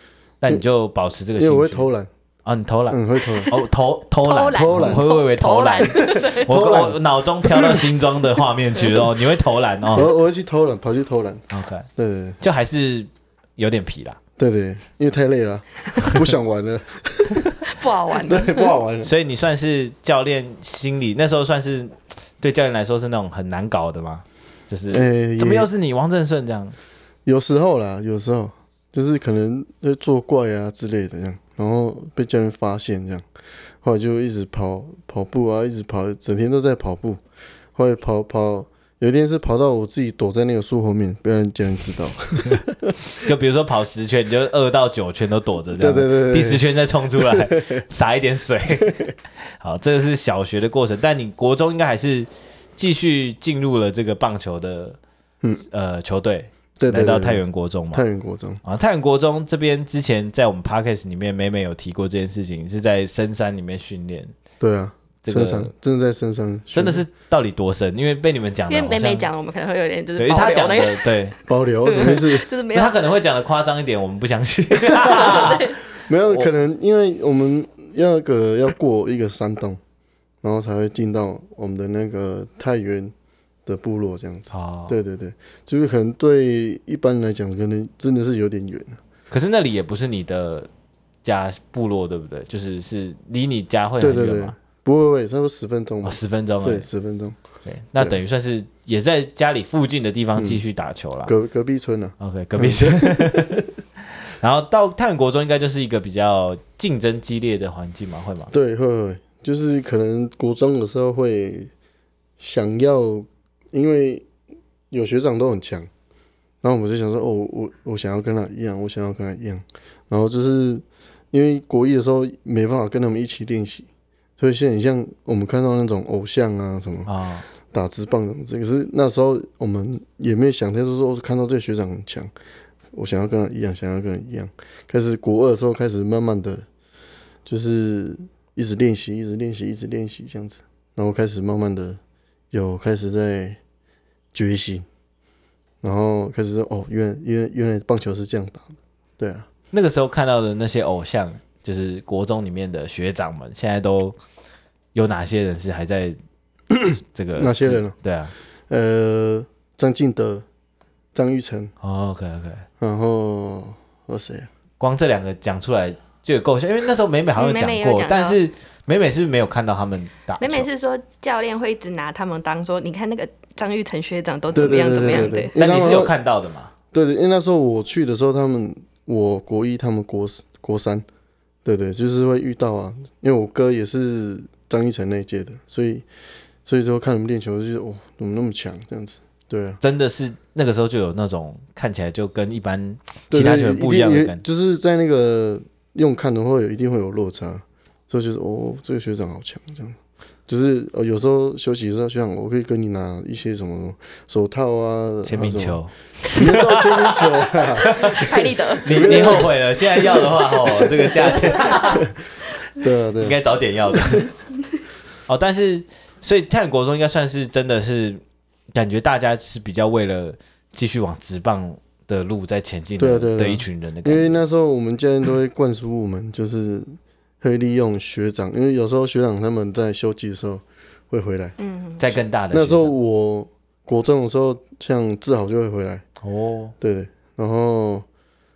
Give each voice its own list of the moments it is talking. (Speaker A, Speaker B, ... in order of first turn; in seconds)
Speaker A: 0.4-1.9, 2.5-10.1, 11.5-11.9, 12.4-14.2, 19.0-26.8, 43.2-49.0, 49.6-55.0, 55.7-58.0, 58.6-64.3, 65.2-65.7, 66.7-69.3, 70.2-71.4, 72.7-75.7, 84.5-85.0, 89.3-90.7, 91.2-94.5, 96.0-96.9, 97.7-101.3, 102.2-103.6, 104.4-108.5, 127.1-127.5, 149.7-154.2, 154.9-156.2, 157.1-158.3, 161.8-162.7, 164.8-170.7, 175.6-176.7, 189.8-194.4, 205.2-212.1, 213.2-214.3, 215.3-218.2, 218.7-224.4, 232.0-232.9, 236.2-236.7
Speaker B: 1.4-2.1, 2.9-3.5, 4.5-5.0, 6.0-7.0, 7.5-7.8, 9.9-11.4, 12.0-12.4, 14.4-17.5, 18.1-19.1, 24.9-25.7, 27.3-33.3, 33.8-37.2, 37.8-43.0, 45.8-46.6, 47.2-47.8, 48.9-49.1, 56.8-58.6, 64.6-67.0, 71.5-72.5, 75.1-75.5, 76.1-79.8, 80.4-83.1, 83.7-89.0, 94.0-97.4, 100.4-100.6, 101.2-103.7, 108.5-111.7, 112.4-114.3, 114.9-115.9, 116.6-127.1, 127.7-132.3, 132.9-136.7, 137.5-142.0, 142.5-143.6, 144.3-144.9, 145.8-149.5, 156.7-157.9, 158.7-160.4, 161.1-161.7, 162.8-164.5, 174.5-176.2, 176.9-181.1, 181.7-186.1, 186.7-189.8, 193.3-212.1, 212.7-213.4, 223.0-231.6, 232.5-236.0, 236.8-238.1
Speaker C: 4.2-6.5, 17.6-18.8, 68.7-71.1, 71.8-73.0, 75.1-75.8, 167.4-168.4, 170.4-175.6, 207.9-209.4, 231.6-232.0